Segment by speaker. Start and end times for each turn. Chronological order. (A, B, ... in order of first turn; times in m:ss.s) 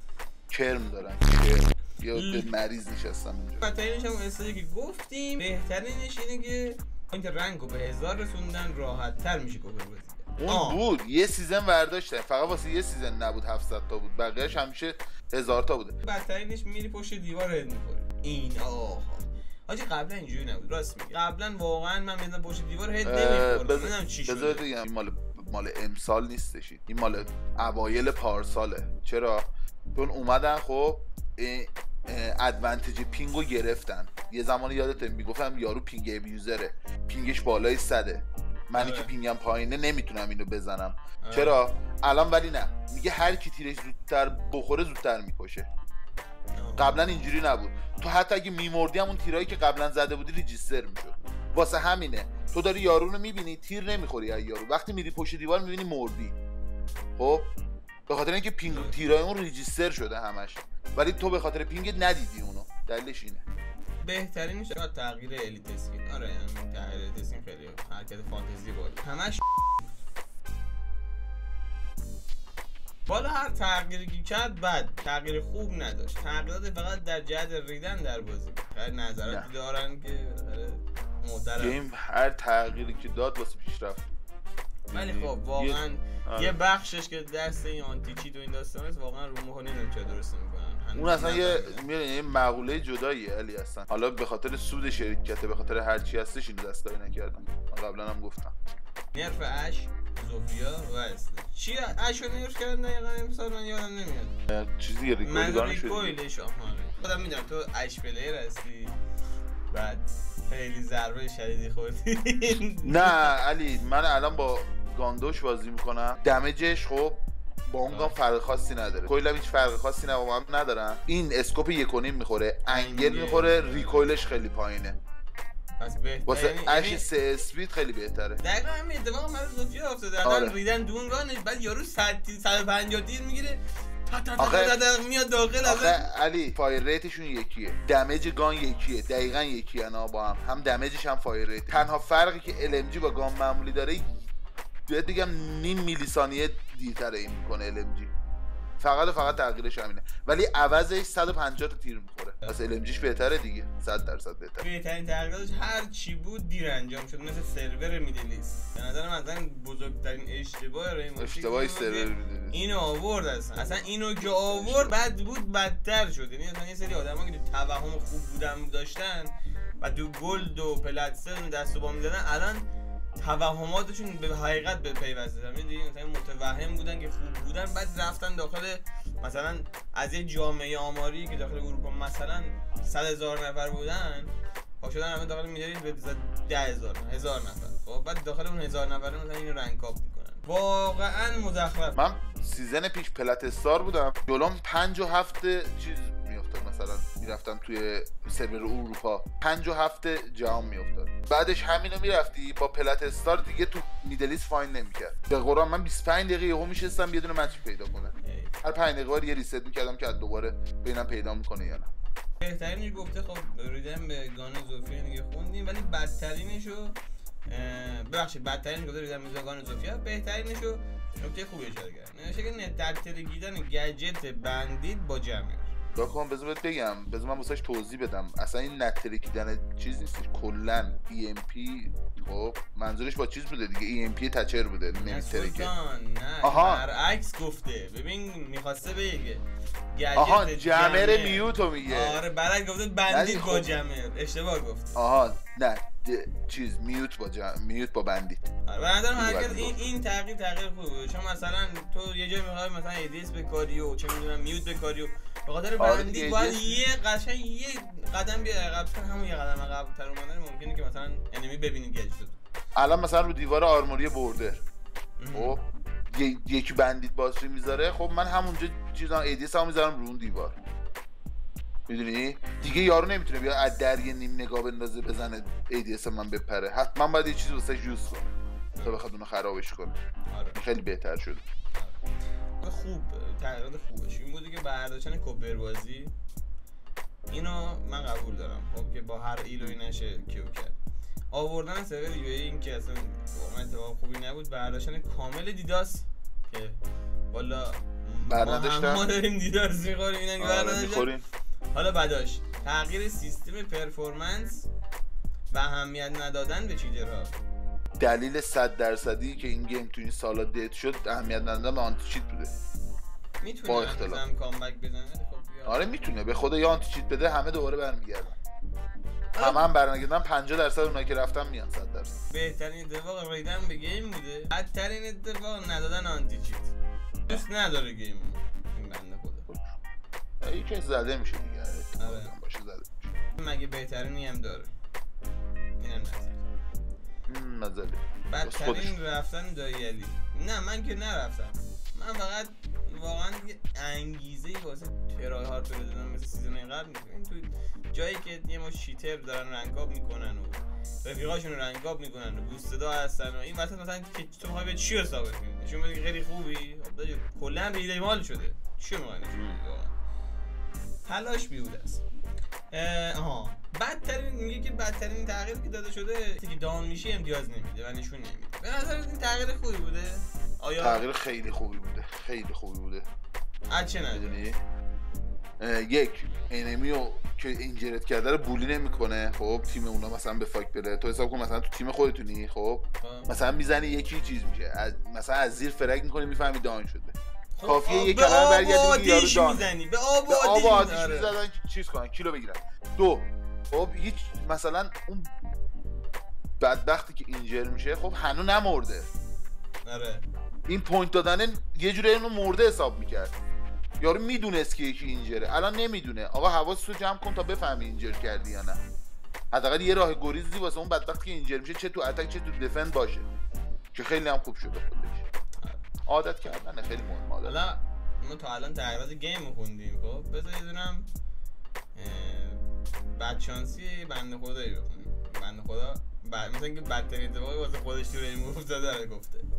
0:00.5-0:03.6 A
0:02.1-0:02.5 B
0:03.6-0:10.8 B
0:10.4-0:16.0 A
0:16.0-0:24.7 B
0:23.0-0:45.7 A
0:38.8-0:39.1 B
0:41.2-0:41.6 B
0:46.6-0:47.3 B
0:46.8-0:56.4 A
0:57.2-0:57.5 A
0:58.1-1:03.4 A
0:58.7-0:59.0 B
1:04.0-1:09.4 B
1:13.1-1:21.8 B
1:21.6-1:24.2 A
1:24.9-1:26.6 A
1:24.9-1:31.9 B
1:31.0-1:38.5 A
1:39.1-1:44.4 B
1:44.5-1:46.2 A
1:45.2-1:49.0 B
1:49.7-1:53.3 B
1:52.8-2:05.0 A
1:57.9-1:58.2 B
2:02.7-2:04.1 B
2:05.8-2:07.1 B
2:06.3-2:08.4 A
2:08.4-2:16.0 B
2:10.2-2:10.6 A
2:14.4-2:14.8 A
2:15.6-2:24.2 A
2:24.9-2:28.1 A
2:28.8-2:34.7 A
2:34.6-2:52.6 B
2:41.2-2:42.7 A
2:43.8-2:45.0 A
2:53.2-3:12.0 B
3:12.0-3:31.9 A
3:28.2-3:28.5 B
3:32.4-3:37.0 B
3:37.5-3:45.8 B
3:46.0-3:55.7 A
3:54.9-4:05.0 B
3:56.4-3:56.8 A
4:00.2-4:02.2 A
4:03.1-4:03.7 A
4:05.0-4:08.5 A
4:08.7-4:22.4 B
4:09.1-4:09.9 A
4:15.8-4:16.8 A
4:22.8-4:24.6 A
4:25.2-4:25.6 B
4:25.3-4:30.6 A
4:31.9-4:40.0 A
4:32.6-4:32.9 B
4:38.8-4:39.0 B
4:40.3-4:40.6 B
4:40.6-4:41.4 A
4:42.6-4:46.1 B
4:47.3-4:50.8 B
4:51.3-4:56.8 B
4:57.3-5:01.1 B
4:58.2-4:59.1 A
5:00.4-5:01.2 A
5:01.7-5:04.7 B
5:05.5-5:07.4 B
5:08.0-5:12.5 A
5:13.4-5:16.1 B
5:13.7-5:14.2 A
5:15.7-5:18.4 A
5:19.3-5:19.7 B
5:19.4-5:22.2 A
5:22.3-5:26.7 B
5:27.3-5:29.5 B
5:30.4-5:33.1 A
5:32.0-5:32.3 B
5:33.4-5:34.7 B
5:35.8-5:36.4 B
5:37.3-5:39.0 A
5:38.3-5:59.9 B
5:59.3-5:59.6 A
6:01.1-6:02.0 B
6:02.7-6:11.0 B
6:10.8-6:13.1 A
6:13.7-6:14.4 B
6:14.1-6:14.6 A
6:15.6-6:29.7 A
6:23.0-6:23.3 B
6:27.6-6:31.4 B
6:30.3-6:35.3 A
6:36.6-6:39.1 A
6:39.8-6:40.2 B
6:40.7-6:43.4 A
6:44.0-6:48.8 A
6:49.5-6:53.3 A
6:53.9-6:55.2 A
6:55.6-6:55.8 B
6:56.1-6:57.6 A
6:57.4-7:01.1 B
7:02.0-7:09.5 B